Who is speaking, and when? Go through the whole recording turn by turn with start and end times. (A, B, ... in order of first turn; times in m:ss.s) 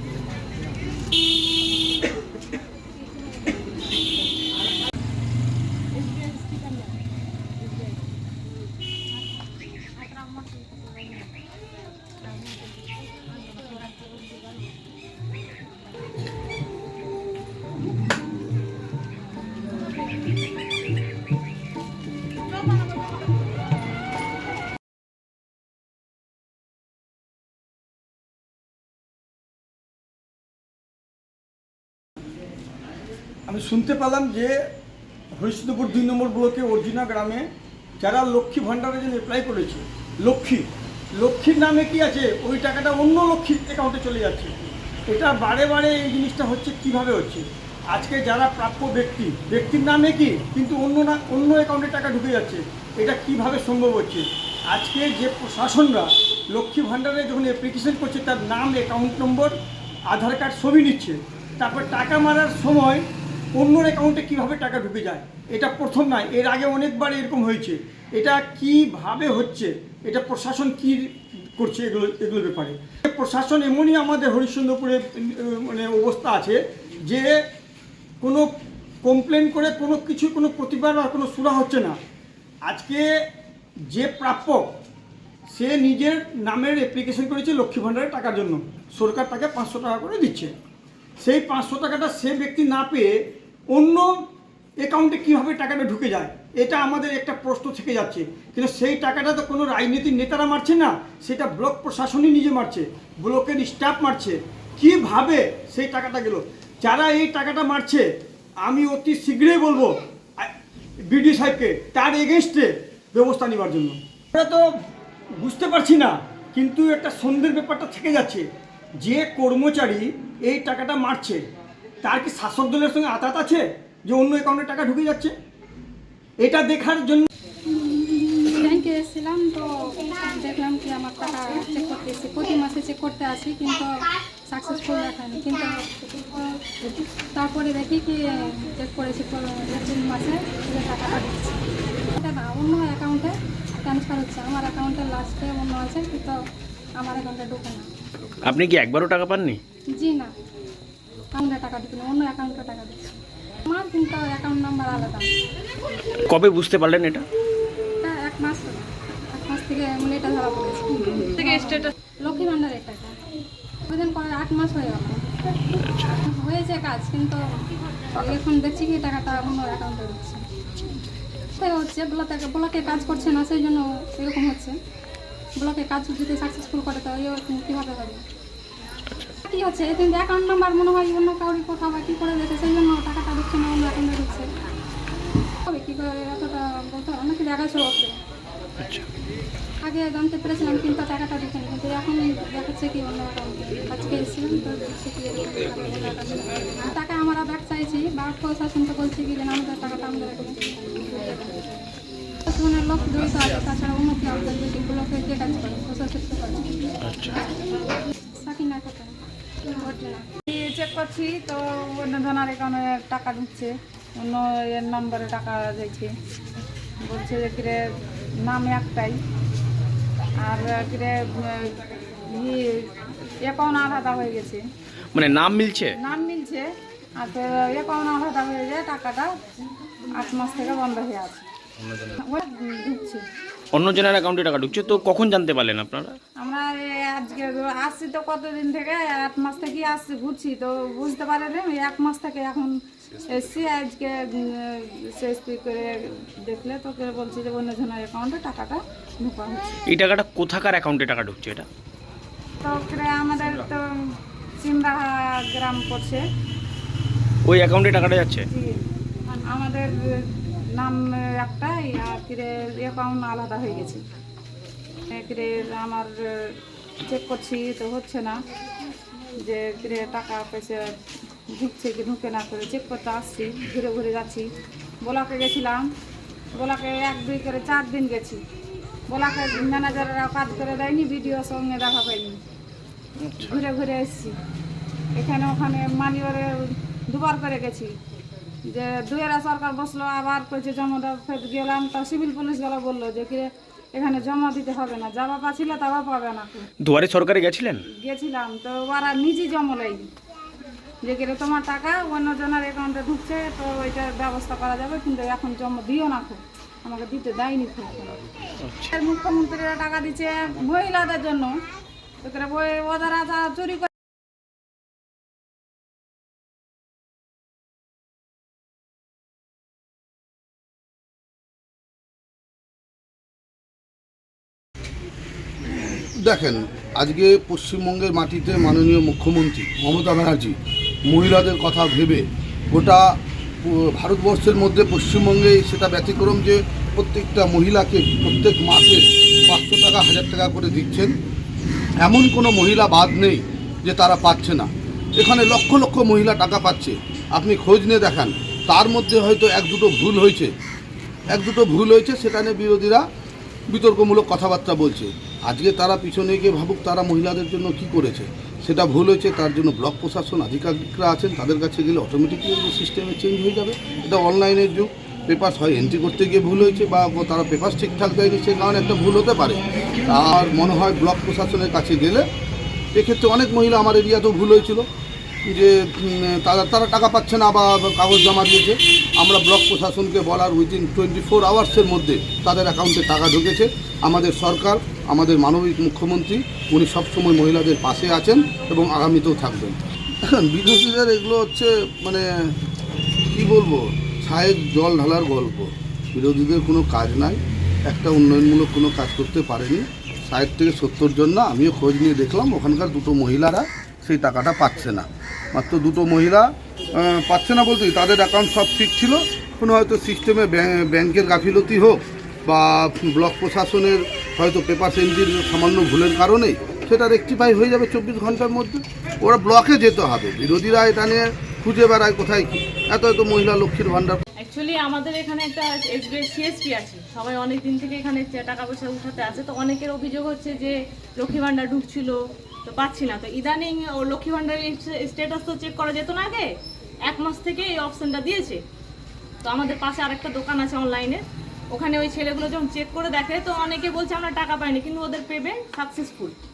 0:06.0-0:06.9 A
0:33.5-0:34.6 B
0:35.4-0:37.4 B
0:38.0-0:40.6 B
0:41.2-0:44.5 B
0:45.1-0:59.5 B
1:00.1-1:03.0 B
1:03.6-1:17.3 B
1:18.2-1:18.5 B
1:19.0-1:22.0 B
1:22.6-1:23.0 B
1:23.9-1:24.7 B
1:25.5-1:30.5 B
1:31.2-1:33.2 B
1:33.7-1:34.1 B
1:34.8-1:48.0 B
1:48.6-1:50.5 B
1:51.1-1:54.6 B
1:55.4-1:58.4 B
1:59.0-2:01.4 B
2:02.0-2:05.3 B
2:06.4-2:07.3 B
2:07.7-2:16.4 C
2:17.3-2:21.6 C
2:22.1-2:26.4 C
2:27.0-2:27.8 C
2:28.4-2:29.6 D
2:29.9-2:30.3 C
2:31.3-2:35.3 C
2:36.3-2:37.2 D
2:38.0-2:43.1 C
2:41.4-2:41.9 A
2:43.9-2:47.4 C
2:48.1-2:50.4 C
2:51.6-2:54.7 C
2:55.6-2:58.2 C
2:59.4-3:04.5 C
3:05.6-3:08.1 C
3:08.8-3:09.0 D
3:09.8-3:21.8 C
3:22.4-3:26.7 C
3:27.1-3:27.4 D
3:28.4-3:29.2 C
3:29.8-3:30.3 C
3:30.5-3:36.1 E
3:37.0-3:37.8 E
3:38.4-3:39.2 E
3:40.4-3:41.8 E
3:42.3-3:42.9 E
3:43.4-3:44.6 E
3:45.1-3:46.0 D
3:46.0-3:46.7 E
3:47.2-3:49.3 E
3:50.1-3:51.5 E
3:52.0-3:53.2 E
3:53.7-3:56.2 D
3:56.4-4:02.7 E
4:03.3-4:09.8 E
4:09.8-4:11.7 D
4:12.6-4:13.8 E
4:14.6-4:16.2 E
4:17.4-4:18.4 D
4:18.5-4:18.8 E
4:19.5-4:19.9 E
4:20.8-4:24.0 E
4:25.1-4:28.3 E
4:29.4-4:30.8 E
4:31.5-4:34.5 E
4:35.0-4:35.8 E
4:36.5-4:38.4 E
4:39.1-4:42.4 E
4:43.2-4:43.5 D
4:43.4-4:44.4 E
4:45.1-4:47.9 E
4:48.6-4:56.7 E
4:56.8-4:57.8 D
4:57.9-5:00.1 E
5:01.0-5:08.2 E
5:08.6-5:08.9 D
5:08.9-5:11.6 E
5:12.2-5:13.9 E
5:26.2-5:30.6 F
5:31.1-5:41.1 F
5:42.0-5:50.5 F
5:51.3-5:53.0 F
5:53.7-6:12.2 F
6:12.9-6:14.9 F
6:15.4-6:32.5 F
6:33.3-7:04.2 F
7:04.4-7:16.5 A
7:17.1-7:18.6 A
7:19.4-7:21.2 A
7:21.7-7:26.3 A